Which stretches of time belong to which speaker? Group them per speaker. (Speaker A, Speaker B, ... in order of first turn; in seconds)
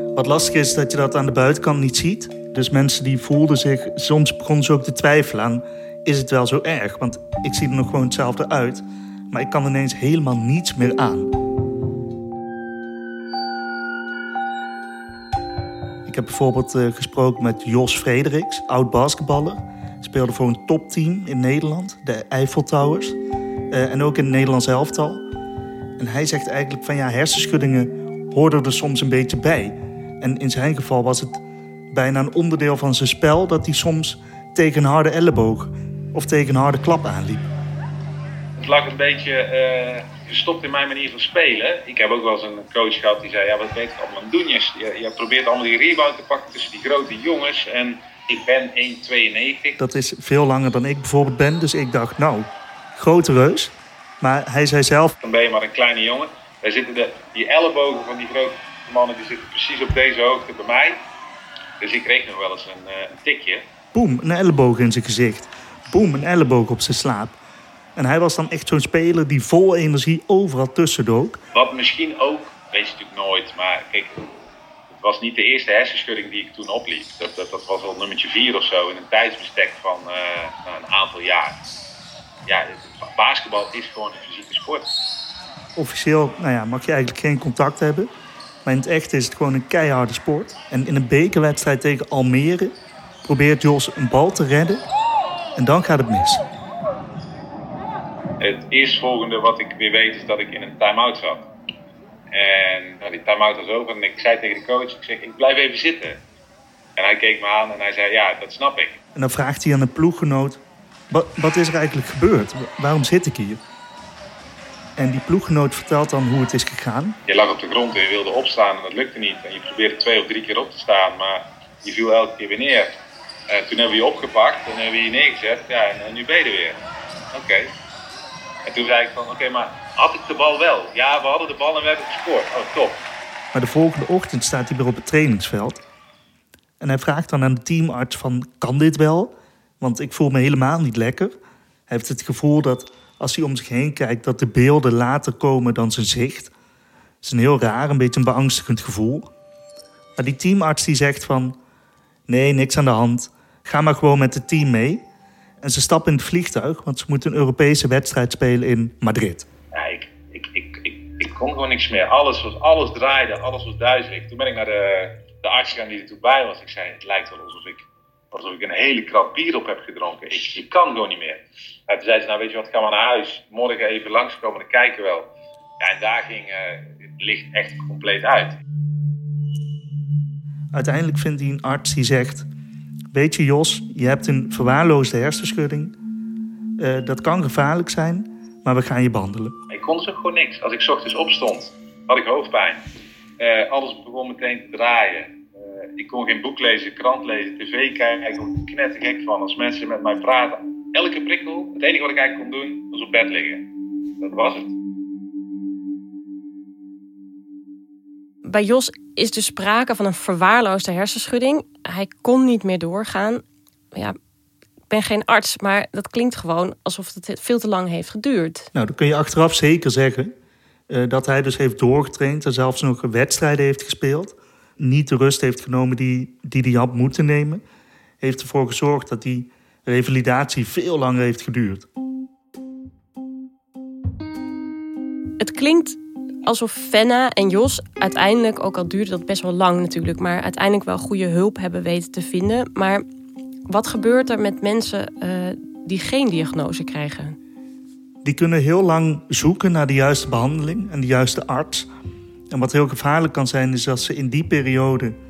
Speaker A: 0.1-11.3, 16.1-23.2, 23.7-25.2, 26.0-31.4, 31.9-37.4, 49.8-55.1, 63.9-67.4, 68.0-71.4, 85.8-88.1, 88.7-92.7, 93.2-94.8, 95.6-96.4, 109.2-110.6, 111.1-113.6, 115.0-117.2, 133.5-135.8, 136.8-141.3, 141.9-146.5, 147.2-149.3, 150.2-151.6, 152.3-155.0, 155.6-159.5, 180.7-182.5, 183.1-186.0, 186.8-189.6, 218.7-220.3, 220.9-227.6, 228.2-231.9, 248.2-251.9, 252.5-255.1
Speaker B: 38.6-49.8, 55.2-61.0, 61.8-63.6, 71.5-74.2, 74.9-81.6, 82.5-84.9, 98.4-101.5, 102.3-106.2, 107.0-109.0, 117.3-123.0, 123.5-126.8, 127.3-127.7, 128.7-133.0, 159.7-175.3, 175.8-178.6, 189.7-192.8, 193.4-195.3, 196.0-203.7, 204.2-204.7
Speaker C: 208.4-213.4, 214.9-218.7, 235.4-243.0, 243.7-247.4